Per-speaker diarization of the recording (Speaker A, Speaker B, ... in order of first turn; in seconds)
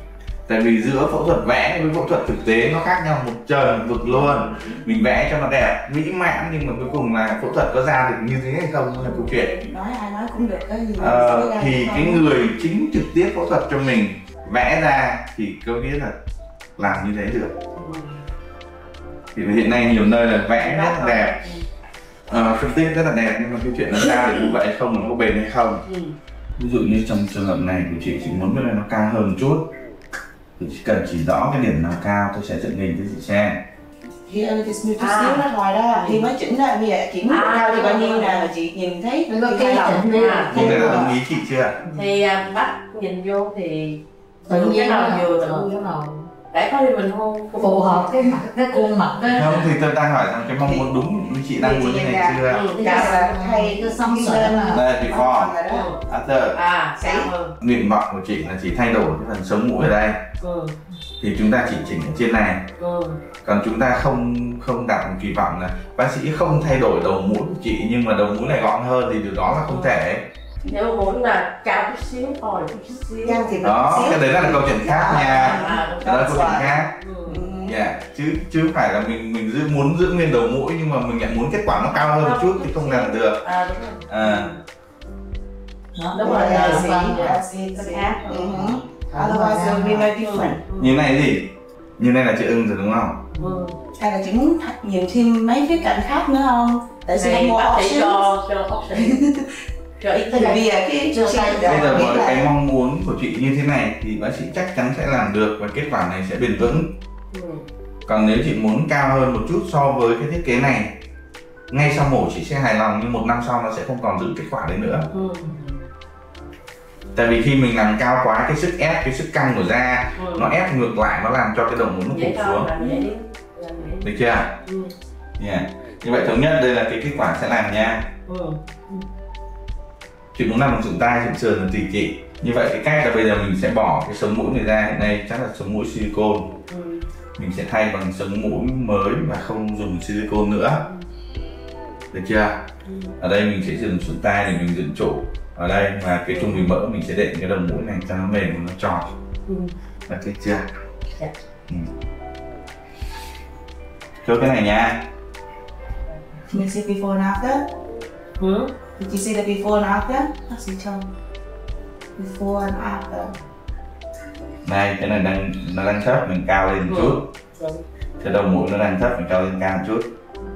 Speaker A: 0.5-9.5, 11.0-16.1, 16.8-17.5, 19.3-21.3, 22.3-25.8, 26.6-29.7, 30.6-33.6, 40.5-41.8, 49.3-52.6, 54.7-56.6, 57.6-60.2, 61.2-62.6, 63.4-70.2, 73.6-76.9, 77.7-83.4, 84.1-84.5, 90.8-93.2, 101.6-106.9, 108.0-110.9, 111.7-115.1, 117.1-122.7, 124.0-124.5, 125.4-128.0, 130.3-136.5, 137.4-140.8, 142.1-142.6, 143.2-149.1, 150.1-150.7, 154.2-155.0, 164.6-167.2, 168.2-170.1
Speaker B: 4.1-4.7, 9.1-12.3, 34.3-41.1, 50.6-51.0, 51.5-55.9, 57.0-57.3, 73.2-76.7, 77.2-77.8, 86.2-90.6, 93.9-98.3, 98.9-99.5, 100.3-102.5, 156.5-157.6, 159.0-161.1, 162.2-163.3
Speaker C: 17.8-18.2, 20.6-21.6, 25.8-26.1, 35.0-36.3, 37.3-38.5, 40.1-40.8, 41.9-45.8, 46.5-48.9, 52.5-53.2, 55.7-56.0, 56.5-57.5, 60.4-60.8, 62.8-63.2, 69.6-70.0, 70.6-74.2, 75.0-77.4, 81.7-84.6, 86.1-88.6, 90.2-91.0, 93.3-93.8, 97.1-99.2, 100.0-100.6, 107.3-107.6, 115.1-115.8, 120.2-120.5, 122.1-124.1, 124.6-124.9, 128.3-129.0, 136.7-137.0, 142.8-143.1, 146.3-146.7, 149.5-149.7, 158.4-158.7, 166.8-167.8
Speaker D: 39.3-41.1, 44.5-46.3, 47.6-49.7, 52.7-54.8, 85.9-87.3, 88.5-90.1, 101.1-102.2